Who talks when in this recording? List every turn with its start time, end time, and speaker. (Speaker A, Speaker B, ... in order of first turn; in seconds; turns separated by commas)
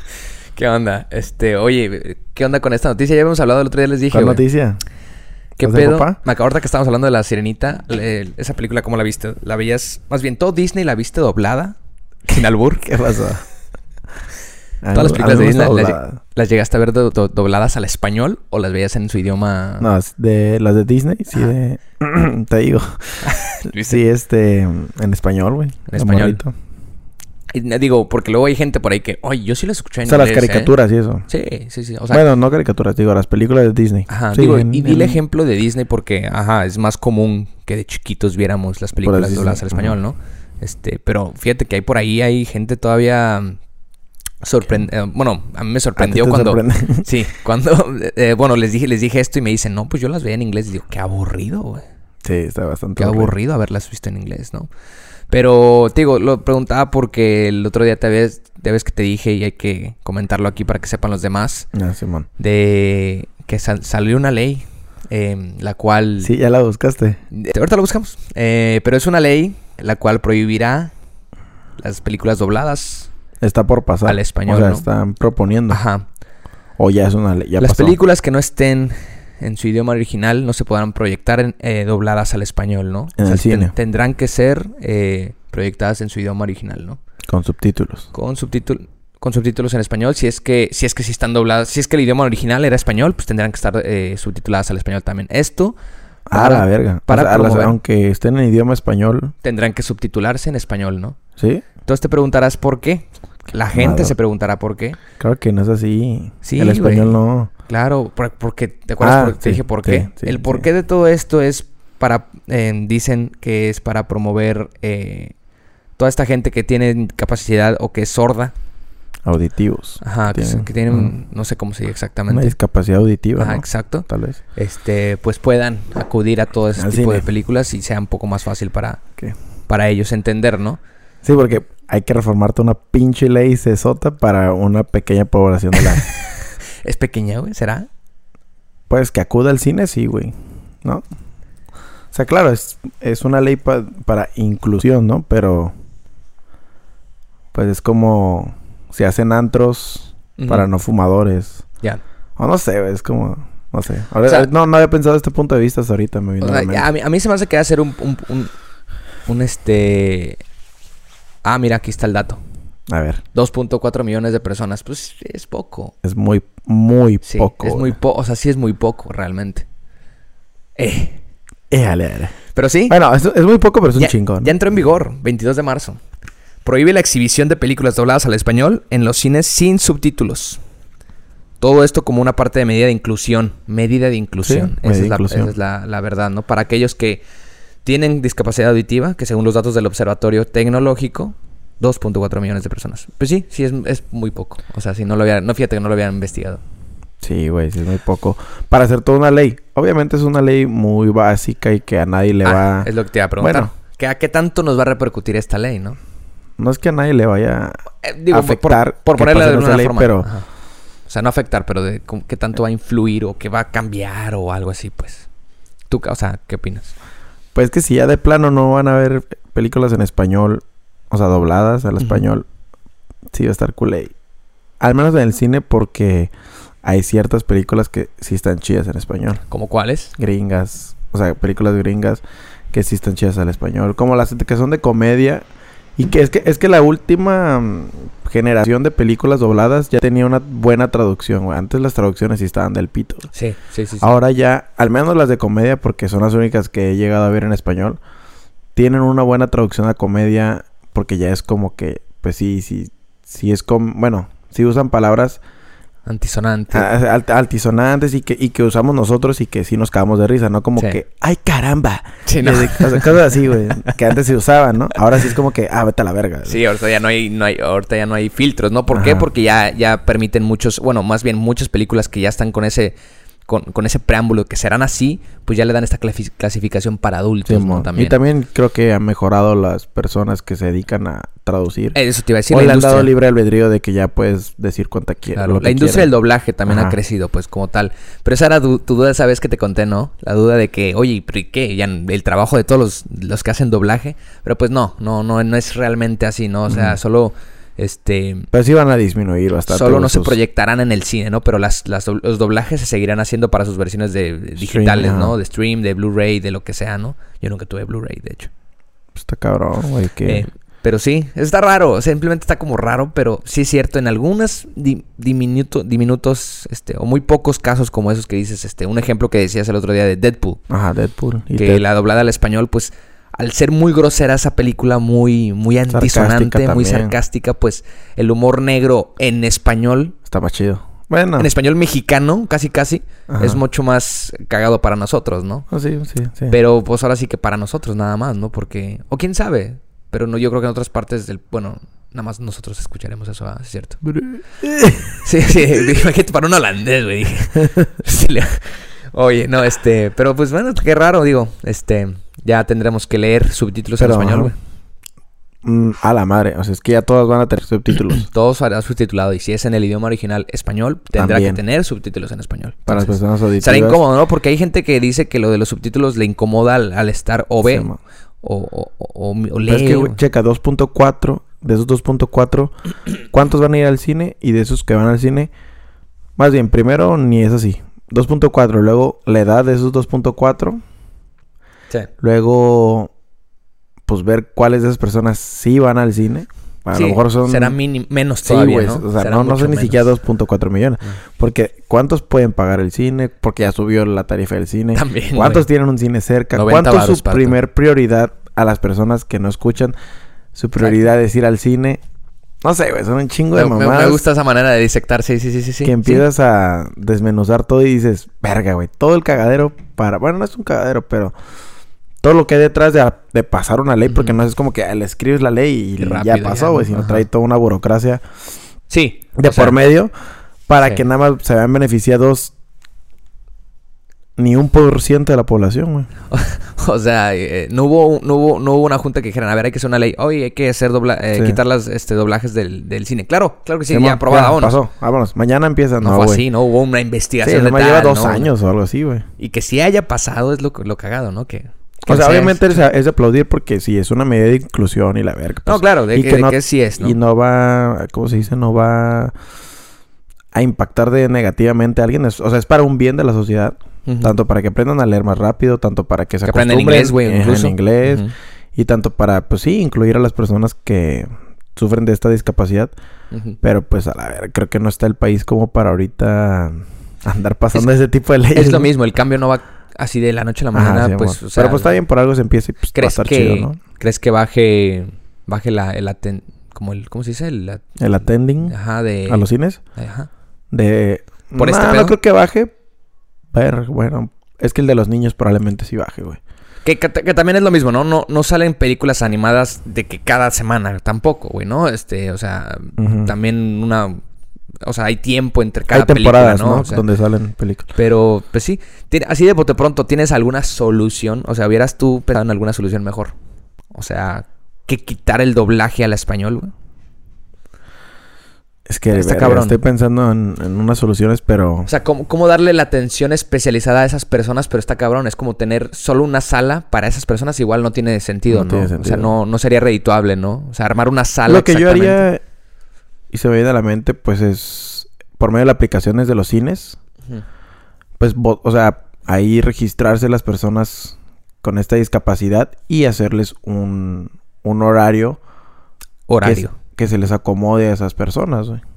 Speaker A: 0.5-4.4, Speaker B: 4.1-4.8, Speaker A: 5.6-11.8, Speaker B: 5.6-6.2, Speaker A: 12.3-12.9, Speaker B: 12.8-13.4, Speaker B: 14.8-16.2, Speaker A: 14.9-19.9, Speaker B: 19.8-26.5, Speaker A: 23.2-24.0, Speaker A: 25.9-26.4, Speaker A: 27.5-30.7, Speaker B: 30.0-31.3, Speaker A: 31.3-32.2, Speaker B: 32.1-35.2, Speaker A: 34.1-43.6, Speaker B: 39.0-39.9, Speaker A: 44.4-51.8, Speaker B: 46.0-47.1, Speaker B: 52.2-53.3, Speaker A: 53.0-54.7, Speaker A: 55.3-61.7, Speaker B: 61.7-62.3, Speaker A: 62.4-66.3, Speaker B: 66.2-67.2, Speaker A: 67.3-70.9, Speaker A: 71.8-73.1, Speaker B: 73.4-75.8, Speaker A: 74.0-74.8, Speaker A: 75.7-76.0, Speaker B: 76.8-78.0, Speaker A: 77.6-87.0, Speaker B: 83.2-83.7, Speaker B: 87.3-88.1, Speaker A: 88.1-95.8, Speaker B: 96.3-99.3, Speaker A: 96.3-97.8, Speaker A: 99.4-101.2, Speaker B: 101.4-101.7, Speaker A: 101.8-105.0, Speaker B: 103.7-104.1, Speaker B: 105.2-107.5, Speaker A: 106.4-107.1, Speaker A: 107.7-115.3, Speaker B: 109.0-110.7, Speaker A: 116.0-118.5, Speaker B: 119.2-121.1, Speaker A: 120.0-122.5, Speaker B: 122.3-124.4, Speaker A: 123.4-129.0, Speaker B: 126.8-127.2, Speaker A: 129.7-130.8, Speaker B: 131.2-136.1, Speaker A: 136.8-137.9, Speaker B: 138.9-141.0, Speaker B: 142.1-145.7, Speaker B: 147.5-151.6, Speaker A: 150.4-150.7, Speaker B: 152.4-156.9, Speaker A: 156.4-158.5, Speaker A: 159.3-160.4, Speaker A: 161.4-162.4, Speaker B: 162.9-163.2, Speaker A: 163.3-165.9, Speaker B: 166.0-167.9, Speaker A: 167.2-169.7, Speaker A: 170.8-171.2, Speaker B: 171.7-172.4, Speaker A: 172.6-172.9, Speaker B: 172.9-174.5, Speaker A: 173.9-176.0, Speaker A: 176.6-180.6, Speaker A: 181.6-187.2, Speaker B: 184.4-185.5, Speaker A: 187.8-196.6, Speaker B: 197.2-203.7, Speaker A: 202.4-206.0, Speaker B: 206.6-210.3, Speaker A: 208.0-210.4, Speaker A: 211.1-215.3, Speaker A: 215.9-216.9, Speaker B: 217.6-222.4, Speaker B: 223.3-224.1, Speaker B: 224.8-226.3, Speaker B: 226.8-229.4, Speaker A: 229.5-230.1, Speaker B: 230.2-235.4, Speaker B: 236.0-243.3, Speaker A: 243.3-244.1, Speaker B: 244.0-248.0, Speaker B: 248.8-255.4, Speaker A: 256.1-256.9, Speaker B: 256.7-266.6, Speaker A: 262.2-263.3, Speaker A: 266.4-272.9, Speaker B: 268.9-269.3, Speaker A: 273.5-278.2, Speaker B: 277.5-282.0, Speaker A: 281.9-283.1, Speaker B: 282.5-286.1, Speaker A: 285.3-298.5, Speaker B: 286.7-286.9, Speaker B: 296.7-297.0, Speaker B: 298.5-300.4, Speaker A: 299.7-308.5, Speaker B: 304.6-305.4, Speaker B: 309.1-310.5, Speaker A: 310.2-320.6, Speaker B: 320.7-321.8, Speaker A: 321.6-330.1, Speaker B: 325.9-327.1, Speaker B: 330.2-331.5, Speaker A: 331.4-335.7, Speaker B: 333.3-333.6, Speaker B: 335.7-336.6, Speaker A: 336.5-344.0, Speaker B: 344.1-345.2, Speaker A: 345.2-354.6, Speaker B: 354.0-354.5, Speaker B: 355.6-358.3, Speaker A: 358.2-367.9, Speaker B: 361.1-361.6, Speaker B: 362.9-364.0, Speaker B: 367.6-368.0, Speaker A: 368.4-370.2, Speaker B: 369.7-372.7, Speaker B: 373.3-375.5, Speaker B: 376.4-380.8, Speaker B: 382.2-383.1, Speaker B: 384.1-387.8, Speaker A: 386.9-390.1, Speaker B: 388.4-399.9, Speaker A: 394.9-395.7, Speaker A: 396.5-397.6, Speaker B: 400.5-402.0, Speaker B: 402.6-404.2, Speaker A: 403.5-406.2, Speaker B: 405.8-411.3, Speaker B: 412.2-418.2, Speaker A: 414.1-414.4, Speaker A: 416.0-417.2, Speaker A: 418.9-419.8, Speaker B: 419.4-420.1, Speaker B: 420.7-422.5, Speaker B: 424.4-426.1, Speaker A: 426.3-434.8, Speaker B: 431.3-431.6, Speaker B: 433.9-436.5, Speaker A: 436.0-438.5, Speaker B: 437.4-439.2, Speaker A: 439.4-442.8, Speaker B: 442.1-449.3, Speaker A: 445.6-447.2, Speaker B: 450.5-462.9, Speaker A: 454.1-454.3, Speaker A: 456.4-458.3, Speaker A: 463.3-463.6, Speaker B: 463.6-468.9, Speaker A: 468.5-471.9, Speaker B: 470.7-473.8, Speaker A: 472.9-478.0, Speaker B: 478.0-478.8, Speaker A: 478.6-480.3, Speaker B: 479.3-479.8, Speaker B: 480.7-482.7, Speaker A: 481.5-482.1, Speaker B: 483.5-486.4, Speaker A: 486.9-494.2, Speaker B: 493.0-493.3, Speaker A: 494.8-497.0, Speaker B: 495.9-497.9, Speaker A: 497.9-503.4, Speaker A: 503.9-506.7, Speaker B: 508.9-511.9, Speaker A: 509.1-509.8, Speaker A: 511.9-522.3, Speaker B: 518.5-519.4, Speaker B: 521.5-522.4, Speaker B: 523.3-527.0, Speaker B: 528.2-535.4, Speaker A: 536.3-536.8, Speaker B: 536.4-538.8